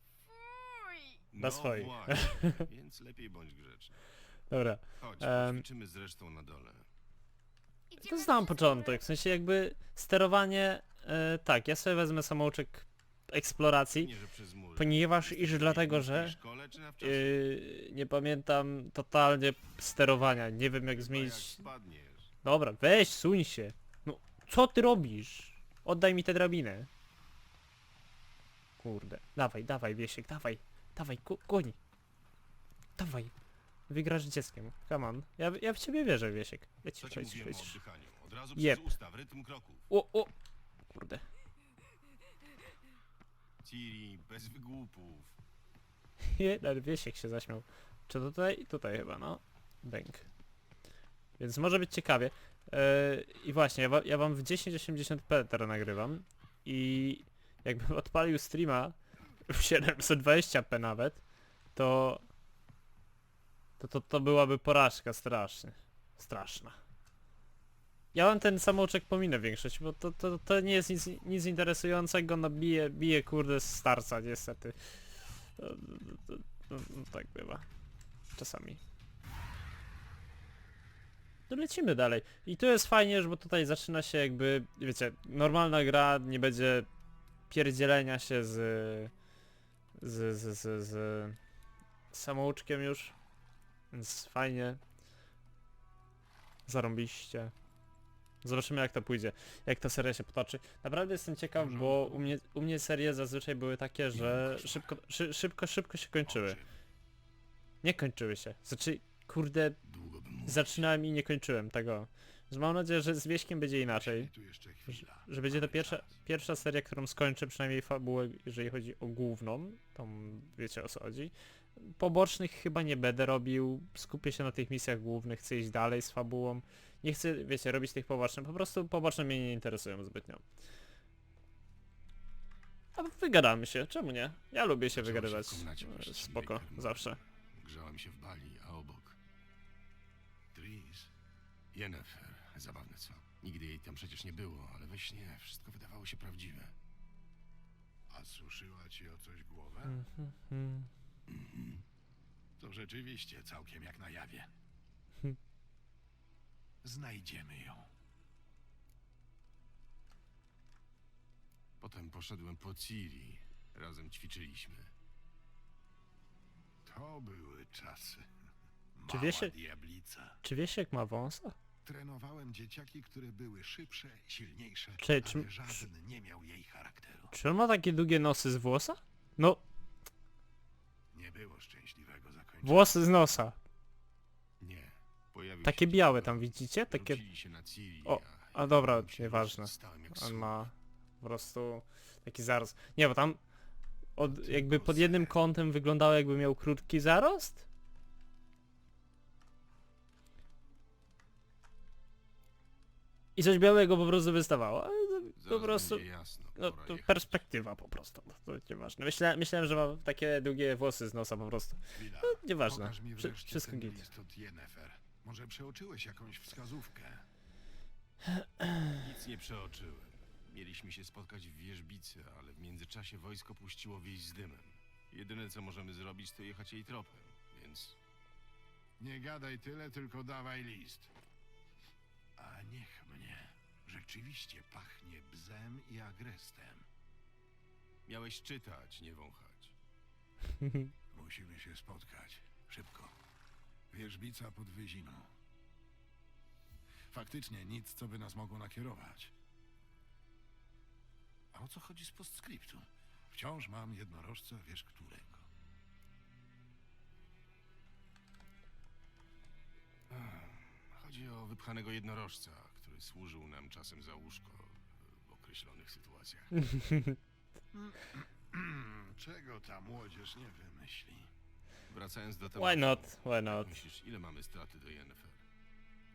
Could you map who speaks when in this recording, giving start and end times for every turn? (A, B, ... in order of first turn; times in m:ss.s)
0:00.3-0:01.2 A
0:01.3-0:04.1 B
0:01.4-0:02.6 C
0:04.5-0:05.6 C
0:05.0-0:06.8 B
0:07.9-0:09.1 A
0:08.0-0:14.1 C
0:13.9-0:17.4 B
0:14.8-0:16.4 C
0:17.0-0:21.6 C
0:20.9-0:22.3 B
0:22.4-0:26.9 C
0:28.8-0:31.8 C
0:33.0-0:33.3 C
0:33.9-0:37.8 C
0:37.0-0:39.9 B
0:38.6-0:38.8 C
0:39.9-0:40.3 C
0:40.9-0:41.2 C
0:43.6-0:45.4 B
0:46.2-0:50.3 C
0:51.4-0:59.0 C
0:59.5-1:01.2 C
1:01.7-1:02.2 C
1:03.8-1:06.8 C
1:08.1-1:14.8 C
1:15.6-1:17.6 C
1:18.3-1:18.8 C
1:21.5-1:26.9 C
1:27.5-1:29.1 C
1:30.0-1:31.4 C
1:32.1-1:33.1 C
1:33.9-1:34.8 C
1:36.7-1:37.5 C
1:38.4-1:46.6 C
1:41.6-1:42.1 D
1:46.2-1:46.6 D
1:47.8-1:49.8 C
1:49.8-1:50.8 B
1:50.4-1:54.3 C
1:53.8-1:56.2 D
1:54.9-2:10.4 C
2:12.9-2:17.2 C
2:14.9-2:19.2 B
2:20.5-2:21.1 D
2:21.7-2:26.7 B
2:28.1-2:30.0 D
2:29.9-2:30.9 C
2:31.3-2:31.8 B
2:32.6-2:34.5 D
2:36.8-2:37.9 D
2:41.8-2:44.9 B
2:46.8-2:48.3 D
2:48.9-2:50.4 D
2:49.1-2:49.5 C
2:50.4-2:51.6 C
2:51.8-2:57.3 D
2:55.0-2:55.8 C
2:57.3-2:59.6 C
3:01.1-3:03.0 D
3:02.6-3:03.6 C
3:04.6-3:10.7 B
3:05.6-3:07.2 C
3:08.0-3:13.4 C
3:14.2-3:17.6 C
3:14.2-3:15.4 D
3:23.4-3:34.0 C
3:25.4-3:27.4 B
3:31.9-3:37.2 D
3:38.3-3:38.9 C
3:38.9-3:48.0 B
3:49.0-3:51.1 D
3:52.4-3:56.8 D
3:58.1-3:59.7 B
4:00.6-4:00.9 C
4:01.1-4:03.2 D
4:03.9-4:05.3 D
4:07.1-4:09.3 D
4:11.5-4:15.5 D
4:20.1-4:26.6 B
4:26.6-4:27.2 C
4:27.7-4:31.3 D
4:31.9-4:35.4 B
4:32.5-4:33.7 C